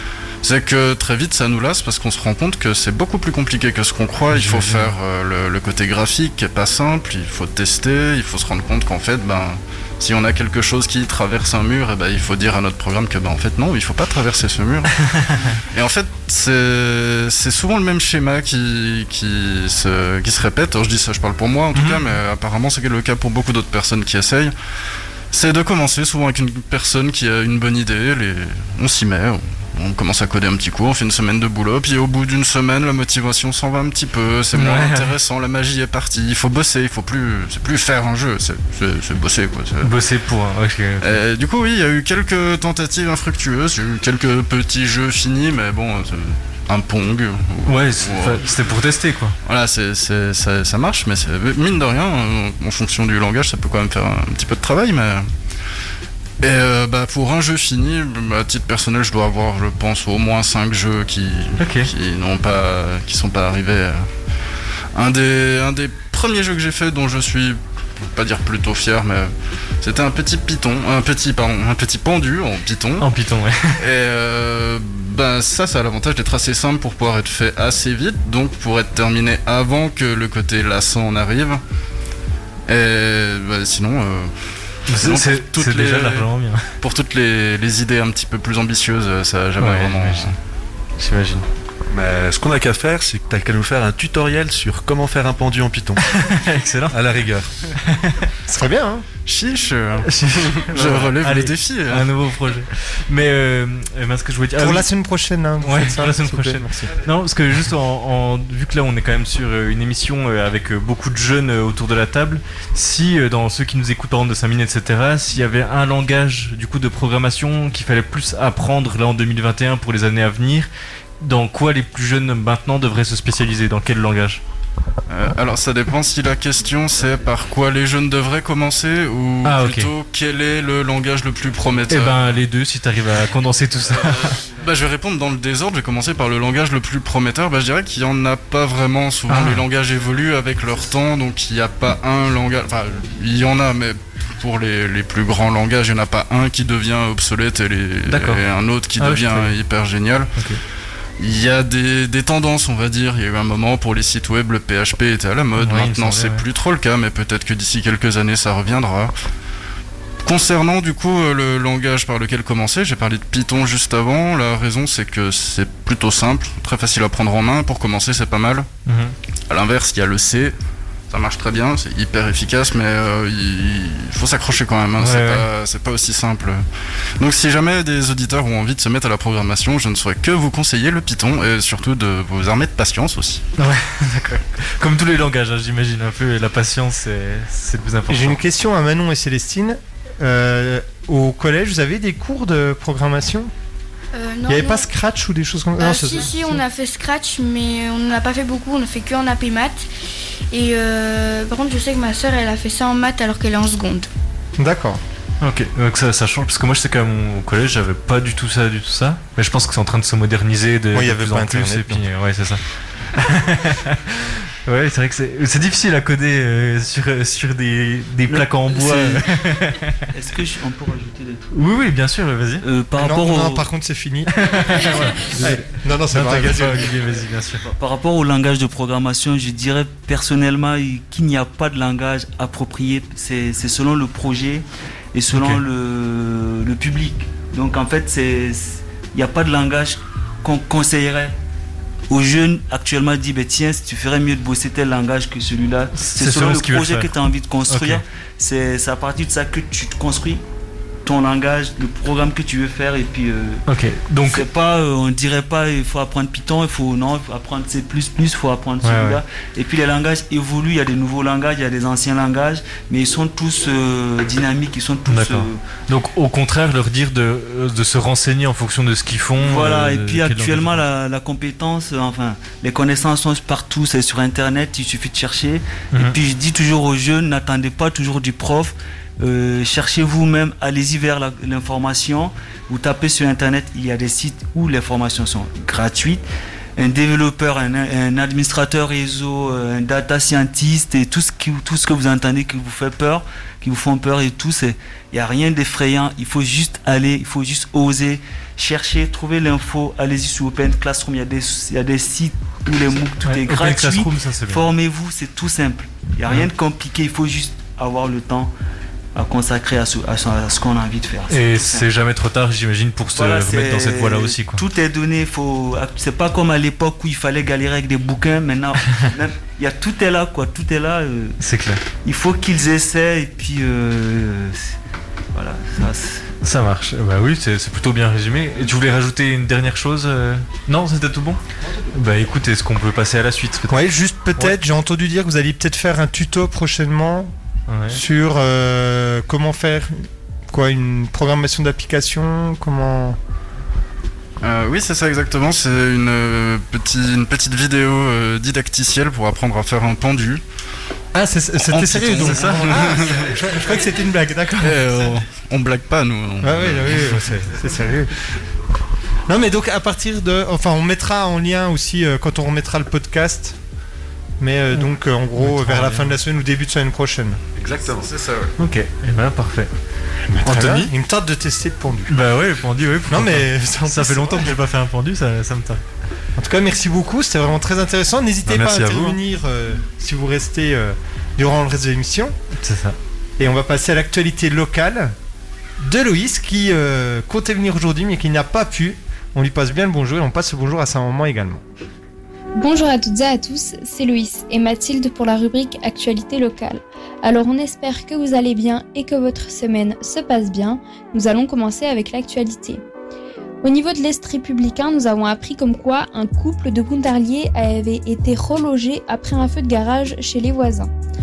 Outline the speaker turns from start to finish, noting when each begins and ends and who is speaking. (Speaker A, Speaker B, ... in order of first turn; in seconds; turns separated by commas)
Speaker A: 0.4-24.5, Speaker B: 4.3-4.9, Speaker B: 15.1-15.6, Speaker B: 21.7-22.1, Speaker A: 25.3-39.9, Speaker B: 34.5-35.1, Speaker B: 39.8-41.2, Speaker A: 41.0-48.6, Speaker B: 47.7-49.4, Speaker A: 49.4-55.3, Speaker A: 56.4-64.1, Speaker B: 61.6-61.9, Speaker A: 64.9-73.1, Speaker B: 73.0-73.8, Speaker A: 73.8-81.6, Speaker A: 82.7-84.3, Speaker B: 84.9-86.6, Speaker A: 84.9-86.3, Speaker A: 86.8-90.4, Speaker B: 89.6-90.3, Speaker B: 91.0-91.5, Speaker C: 91.9-96.0, Speaker B: 96.0-97.0, Speaker C: 96.9-97.5, Speaker B: 97.8-98.3, Speaker D: 98.5-99.0, Speaker A: 99.3-102.1, Speaker B: 100.0-104.9, Speaker D: 104.6-106.9, Speaker B: 105.6-120.7, Speaker B: 121.2-124.4, Speaker A: 125.1-132.4, Speaker B: 129.4-129.9, Speaker B: 131.9-134.4, Speaker A: 134.2-150.3, Speaker B: 139.3-139.7, Speaker B: 148.1-148.4, Speaker B: 149.0-149.6, Speaker A: 151.2-159.1, Speaker B: 155.6-156.4, Speaker A: 160.2-168.7, Speaker B: 168.9-169.1, Speaker A: 169.5-170.6, Speaker A: 171.1-176.6, Speaker B: 175.0-175.5, Speaker A: 177.2-183.4, Speaker B: 183.6-188.4, Speaker D: 188.1-193.5, Speaker E: 194.1-194.9, Speaker D: 194.5-196.6, Speaker E: 195.8-199.9, Speaker E: 200.5-204.1, Speaker D: 204.6-205.0, Speaker B: 205.4-212.6, Speaker D: 210.9-212.0, Speaker B: 213.1-220.0, Speaker F: 218.3-219.3, Speaker F: 220.1-221.5, Speaker B: 221.5-222.7, Speaker F: 222.6-223.7, Speaker D: 223.0-227.0, Speaker B: 224.3-227.6, Speaker F: 227.6-241.4, Speaker B: 235.3-235.6, Speaker F: 242.1-250.4, Speaker B: 245.9-247.1, Speaker B: 247.7-248.0, Speaker F: 251.1-253.6, Speaker B: 253.7-254.5, Speaker F: 254.2-265.6, Speaker B: 258.8-259.2, Speaker B: 265.1-270.8, Speaker F: 269.4-286.2, Speaker B: 275.9-276.2, Speaker F: 286.8-308.5, Speaker B: 303.2-304.7, Speaker F: 309.1-311.9, Speaker B: 311.3-314.6, Speaker F: 313.1-321.4, Speaker B: 321.4-321.8, Speaker F: 322.0-324.8, Speaker F: 325.3-326.3, Speaker B: 326.4-331.4, Speaker B: 331.9-333.8, Speaker D: 333.7-337.3, Speaker B: 337.7-338.0, Speaker D: 337.9-343.2, Speaker A: 344.4-350.4, Speaker D: 351.1-354.8, Speaker A: 351.7-353.6, Speaker B: 352.2-352.8, Speaker A: 354.6-357.3, Speaker D: 356.4-358.1, Speaker D: 359.3-363.6, Speaker D: 364.4-367.4, Speaker B: 365.4-366.2, Speaker C: 367.6-368.4, Speaker A: 368.1-368.5, Speaker B: 368.6-369.7, Speaker D: 370.3-372.2, Speaker B: 370.4-370.9, Speaker B: 372.1-375.8, Speaker D: 373.1-374.6, Speaker D: 376.4-382.4, Speaker C: 378.5-379.2, Speaker B: 382.6-383.0, Speaker D: 383.4-385.1, Speaker D: 385.8-391.6, Speaker G: 392.6-402.8, Speaker G: 403.6-410.9